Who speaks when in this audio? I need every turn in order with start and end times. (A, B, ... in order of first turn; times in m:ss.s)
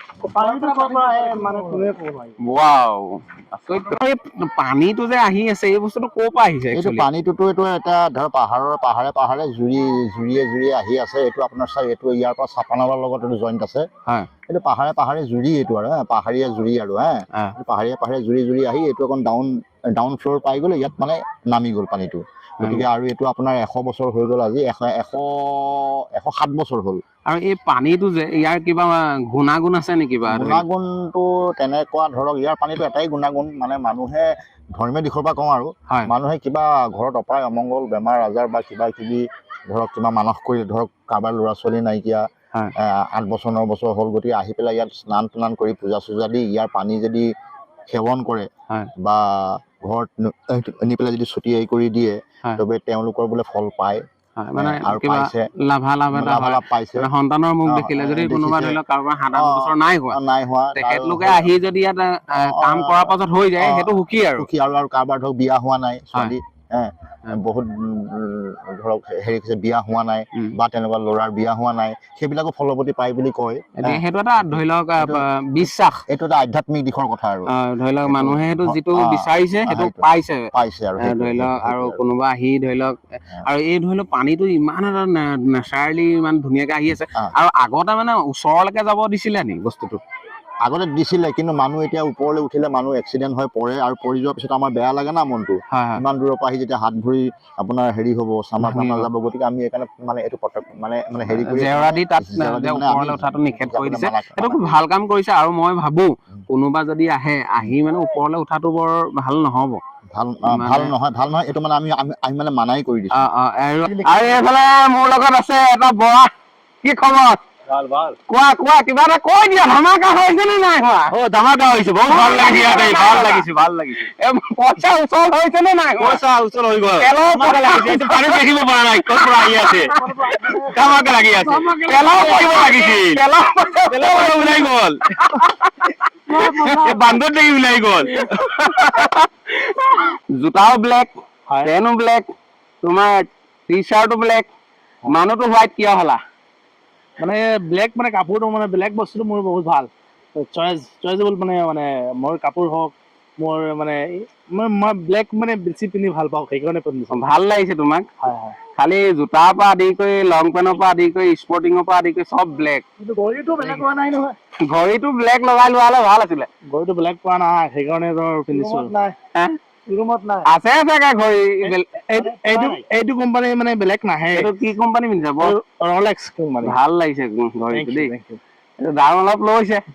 0:00.2-0:02.4 A
0:00.3-0:01.9 B
0:02.4-0:07.1 C
0:06.7-0:13.9 D
0:14.5-0:27.0 D
0:27.2-0:30.6 C
0:30.3-0:42.2 D
0:42.8-0:47.3 D
0:47.9-0:54.0 D
0:54.4-1:00.2 C
0:54.6-0:55.5 D
0:56.1-0:57.1 D
0:57.6-0:58.8 D
0:59.3-1:01.5 D
1:00.7-1:04.5 C
1:02.3-1:15.2 D
1:13.8-1:16.0 C
1:16.1-1:22.0 D
1:17.5-1:20.5 C
1:21.0-1:30.0 C
1:30.6-1:44.8 D
1:35.7-1:36.0 C
1:38.6-1:39.1 C
1:41.3-1:49.8 C
1:50.1-1:53.3 D
1:50.5-1:50.9 C
1:53.1-1:56.3 C
1:56.8-1:57.4 C
1:58.3-2:01.2 C
2:01.1-2:04.0 E
2:02.0-2:03.4 C
2:04.0-2:06.2 C
2:06.0-2:10.0 E
2:07.0-2:08.1 C
2:09.2-2:09.9 C
2:10.0-2:11.8 A
2:10.7-2:13.2 E
2:11.8-2:16.0 C
2:13.8-2:15.0 E
2:16.3-2:17.1 A
2:16.5-2:16.9 C
2:16.8-2:18.1 E
2:18.1-2:21.1 C
2:21.6-2:22.3 C
2:22.8-2:24.5 C
2:25.1-2:26.2 C
2:27.2-2:37.2 B
2:37.1-2:38.0 C
2:38.2-2:38.6 B
2:38.7-2:42.8 C
2:43.0-2:44.4 B
2:44.6-2:46.5 C
2:46.7-2:49.1 B
2:48.5-2:48.9 A
2:49.9-2:50.3 A
2:50.4-2:52.3 C
2:51.6-2:54.5 B
2:52.1-2:52.8 A
2:54.3-2:55.5 C
2:55.4-2:56.8 B
2:56.6-2:58.1 C
2:57.7-2:58.4 B
2:58.8-2:59.8 C